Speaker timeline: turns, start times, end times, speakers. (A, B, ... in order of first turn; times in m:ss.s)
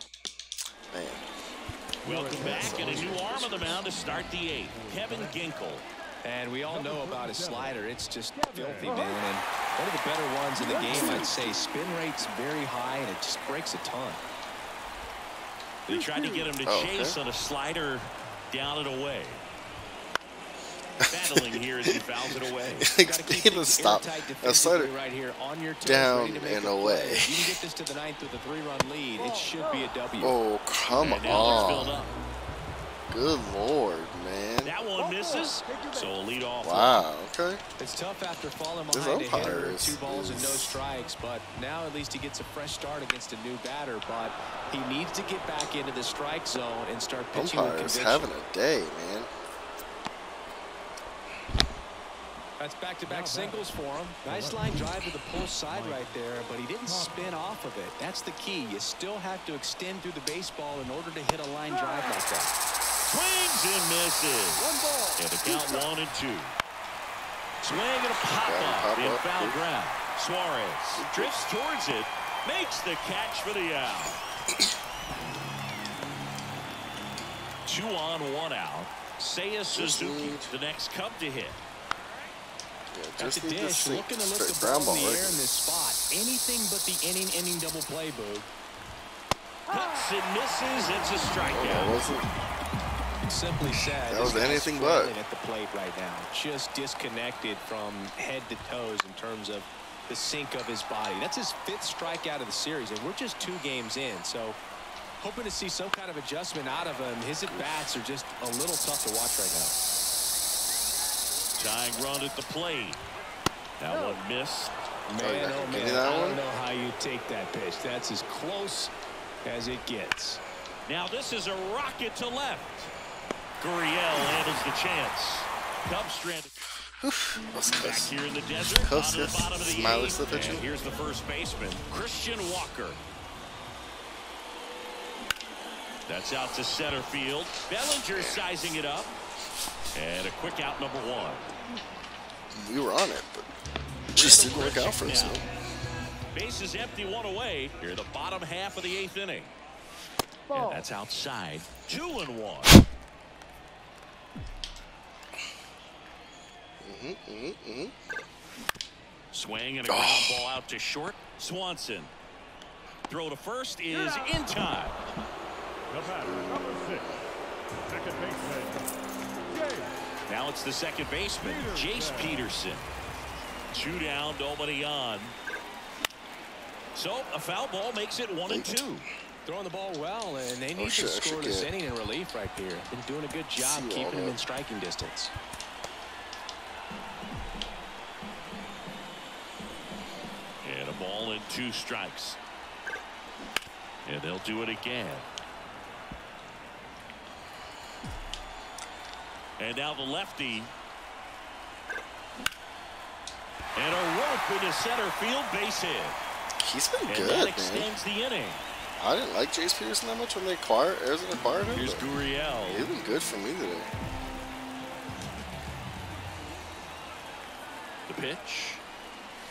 0:00.9-0:01.2 A
0:02.0-0:03.4 B
0:02.0-0:05.8 C
0:02.3-0:03.8 A
0:04.1-0:05.6 B
0:06.2-0:14.2 D
0:06.7-0:07.8 B
0:08.4-0:09.2 B
0:10.6-0:11.5 B
0:10.9-0:11.6 A
0:15.9-0:19.4 C
0:15.9-0:16.5 B
0:16.7-0:17.2 A
0:21.1-0:22.9 C
0:21.1-0:22.0 A
0:22.8-0:24.9 A
0:22.9-0:30.4 D
0:25.8-0:27.6 A
0:29.2-0:29.9 B
0:30.2-0:32.1 A
0:31.0-0:32.2 C
0:33.1-0:34.8 A
0:34.6-0:37.0 C
0:35.0-0:36.2 B
0:36.6-0:37.6 A
0:37.8-0:48.3 D
0:38.9-0:40.8 A
0:47.3-0:49.3 A
0:52.6-1:02.6 D
0:53.1-0:53.7 B
0:54.3-0:55.0 B
0:55.7-0:56.1 B
0:56.9-0:57.4 B
1:01.7-1:02.1 B
1:03.1-1:06.5 C
1:04.6-1:05.9 B
1:07.6-1:14.2 C
1:08.2-1:09.6 A
1:11.0-1:11.4 A
1:17.7-1:21.6 C
1:19.7-1:20.5 A
1:22.9-1:25.4 A
1:23.2-1:28.5 D
1:29.7-1:30.1 B
1:29.7-1:32.0 C
1:31.5-1:32.3 A
1:33.3-1:44.6 D
1:34.1-1:35.1 A
1:45.2-1:49.8 D
1:47.5-1:47.9 A
1:51.6-1:53.0 C
1:53.8-1:54.7 C
1:53.9-1:54.2 B
1:55.1-1:58.9 D
1:55.2-1:56.4 A
1:59.4-2:00.4 D
2:00.9-2:02.9 C
2:03.6-2:06.5 C
2:07.0-2:08.1 A
2:07.8-2:13.0 C
2:08.8-2:10.7 A
2:16.1-2:19.1 C
2:18.2-2:18.4 A
2:19.9-2:21.5 C
2:22.5-2:23.5 A
2:24.1-2:25.4 C
2:24.1-2:25.4 A
2:26.3-2:29.5 C
2:30.5-2:30.9 B
2:30.5-2:32.8 C
2:36.8-2:38.0 A
2:39.3-2:42.1 C
2:39.9-2:40.5 A
2:43.1-2:45.0 C
2:43.9-2:44.4 B
2:45.9-2:47.1 B
2:46.2-2:47.2 A
2:47.9-2:48.9 B
2:49.5-2:49.9 B
2:50.3-2:52.9 C
2:51.4-2:52.5 B
2:53.7-2:55.4 C
2:57.0-2:59.1 C
2:59.5-3:05.3 D
3:00.8-3:01.7 A
3:03.6-3:04.4 A
3:10.6-3:12.4 C
3:14.0-3:15.3 C
3:19.6-3:20.7 C
3:23.8-3:26.2 C
3:26.6-3:27.9 A
3:27.1-3:28.6 C
3:29.0-3:32.1 A
3:31.7-3:32.9 C
3:32.7-3:33.9 A
3:38.1-3:38.8 C